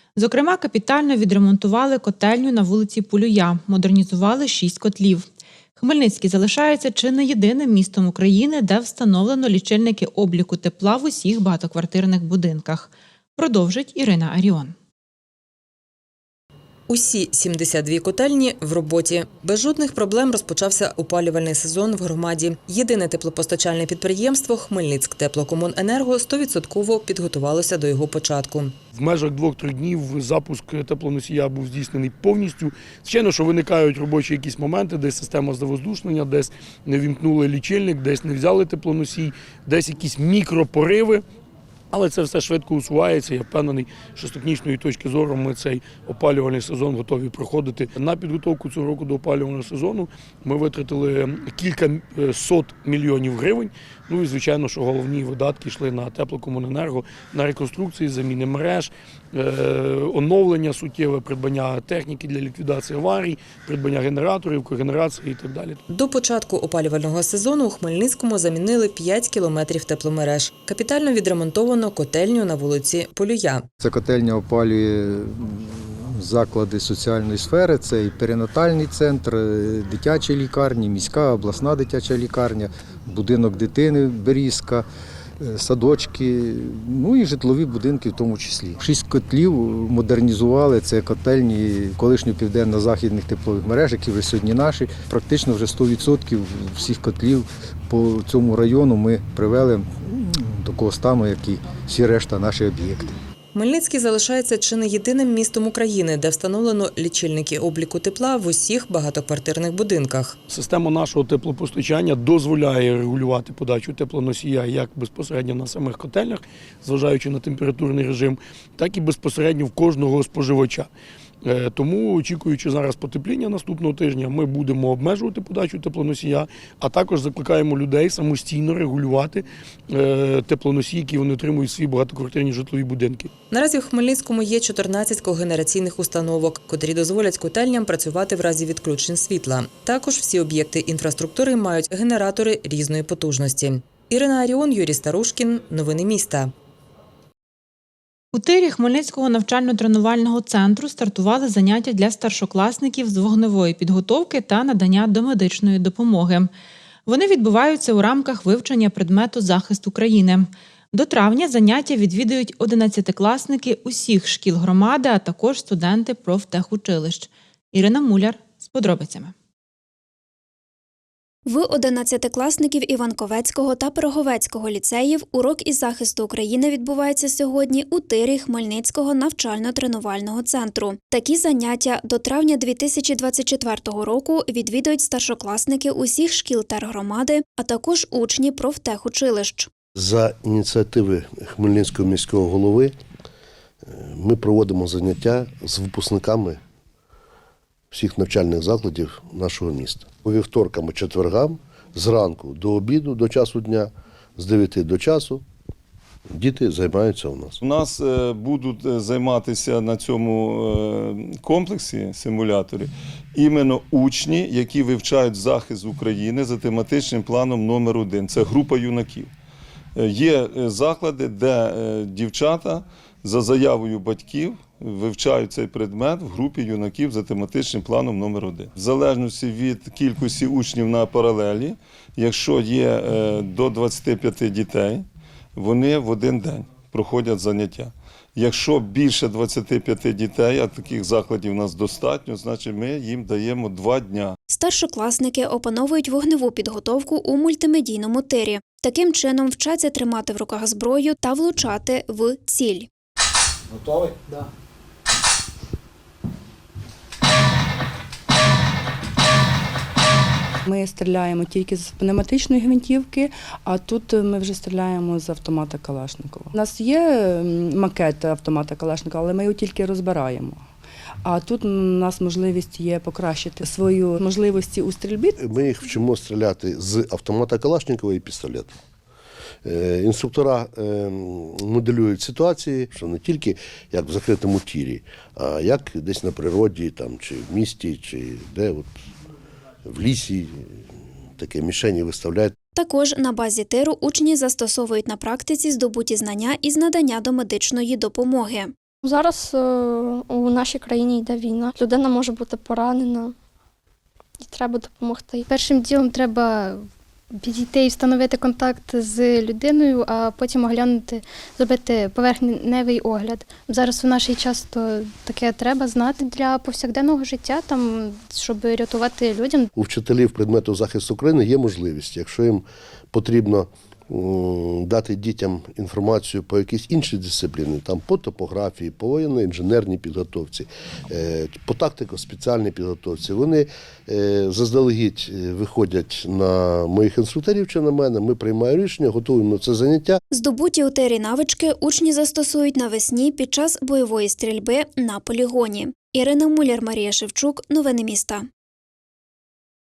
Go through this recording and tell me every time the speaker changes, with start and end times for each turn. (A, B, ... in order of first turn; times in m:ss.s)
0:00.2-0:14.7 A
0:16.9-0:28.7 B
0:28.9-0:41.2 C
0:41.9-1:05.8 C
1:05.9-1:13.6 B
1:13.8-1:24.8 D
1:25.4-1:43.1 D
1:43.5-1:50.3 B
1:50.5-2:00.9 C
2:01.4-2:13.3 C
2:13.5-2:26.5 B
2:28.3-2:36.5 A
2:37.0-2:49.3 A
2:51.5-3:09.7 E
3:09.9-3:12.9 F
3:13.8-3:16.6 F
3:17.9-3:25.4 F
3:26.3-3:27.6 F
3:27.6-3:39.3 G
3:40.0-3:55.0 G
3:55.6-4:04.4 G
4:04.5-4:12.9 E
4:20.7-4:23.2 H
4:23.8-4:30.6 H
4:32.4-4:35.2 H
4:35.3-4:38.7 F
4:39.6-4:48.9 F
4:49.8-4:50.7 F
4:51.4-4:52.5 F
4:52.7-4:58.7 E
4:59.0-5:03.3 I
5:04.4-5:05.5 I
5:05.5-5:19.7 J
5:19.8-5:40.2 F
5:40.3-5:48.4 E